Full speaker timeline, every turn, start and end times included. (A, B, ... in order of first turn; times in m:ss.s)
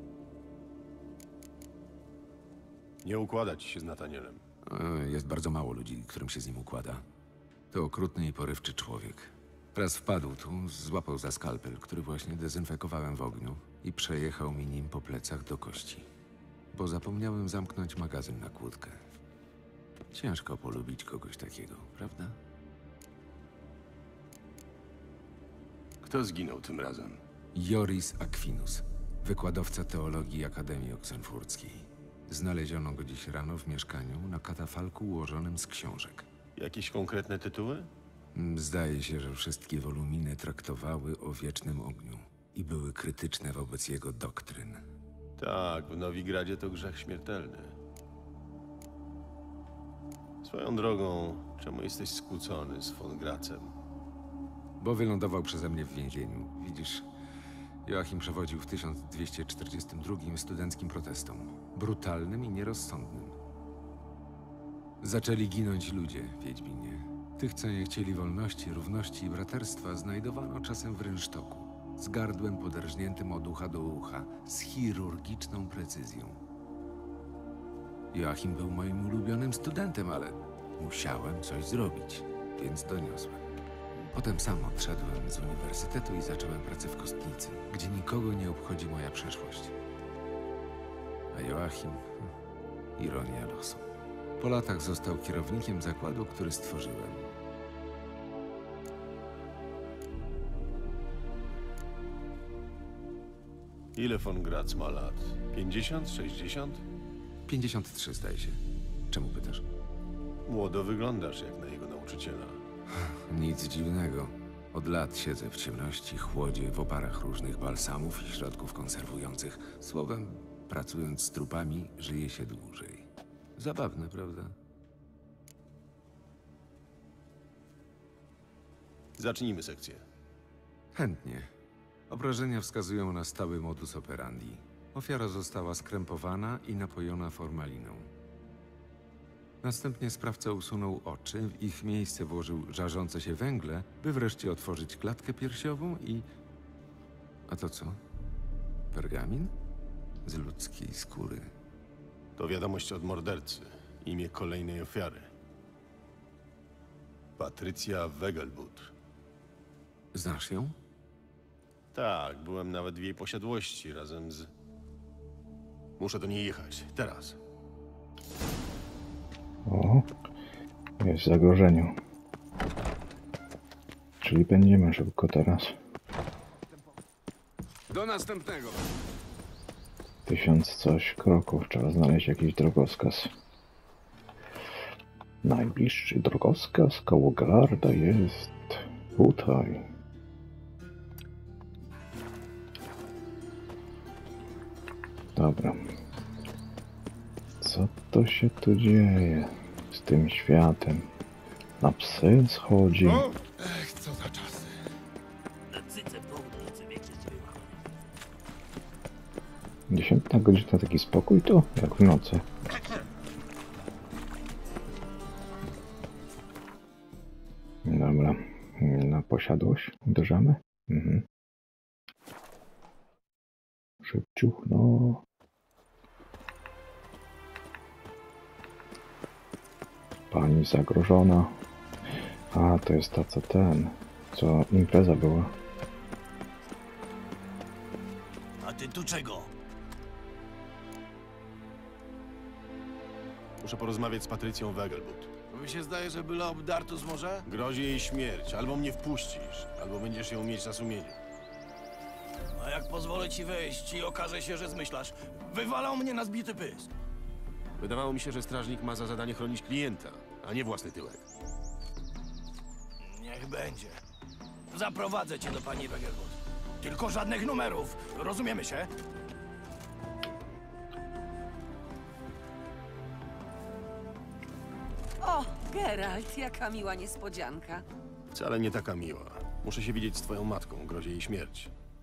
0:03.0-0:04.4 A
0:04.7-0:07.0 B
0:07.7-0:16.0 B
0:16.7-0:19.0 B
0:20.1-0:22.4 B
0:26.0-0:27.2 A
0:27.5-0:36.3 B
0:36.6-0:37.9 A
0:38.3-0:44.8 B
0:45.4-0:47.8 A
0:50.4-0:53.7 A
0:54.8-0:57.0 B
0:57.8-1:03.4 B
1:05.0-1:16.4 B
1:18.1-1:23.4 B
1:24.1-1:29.7 B
1:31.3-1:32.1 B
1:33.0-1:33.8 B
1:34.4-1:37.3 B
1:43.9-1:46.8 A
1:47.4-1:49.6 B
1:50.4-1:52.6 A
1:53.0-2:04.6 B
2:09.2-2:10.0 A
2:10.9-2:11.5 B
2:12.1-2:18.1 B
2:19.6-2:26.2 B
2:27.4-2:28.0 B
2:28.9-2:29.5 B
2:30.2-2:31.5 B
2:32.4-2:35.3 A
2:37.4-2:38.9 A
2:40.1-2:40.7 B
2:41.9-2:44.5 A
2:46.0-2:47.4 A
2:49.6-2:50.1 C
2:51.0-2:52.0 C
2:54.2-2:55.8 C
2:57.9-2:58.8 D
3:00.2-3:03.3 C
3:05.4-3:09.9 C
3:15.3-3:15.8 C
3:17.6-3:21.1 C
3:21.8-3:23.3 C
3:23.6-3:24.6 D
3:29.9-3:32.4 C
3:37.8-3:41.2 C
3:44.0-3:45.2 C
3:50.3-3:51.5 C
3:52.5-3:55.5 C
3:58.6-3:59.5 D
4:03.6-4:05.3 A
4:05.5-4:07.4 D
4:07.4-4:11.2 A
4:12.6-4:16.8 D
4:17.8-4:21.2 A
4:23.1-4:23.9 D
4:24.7-4:26.3 D
4:26.8-4:28.9 D
4:35.2-4:37.8 E
4:38.3-4:41.7 A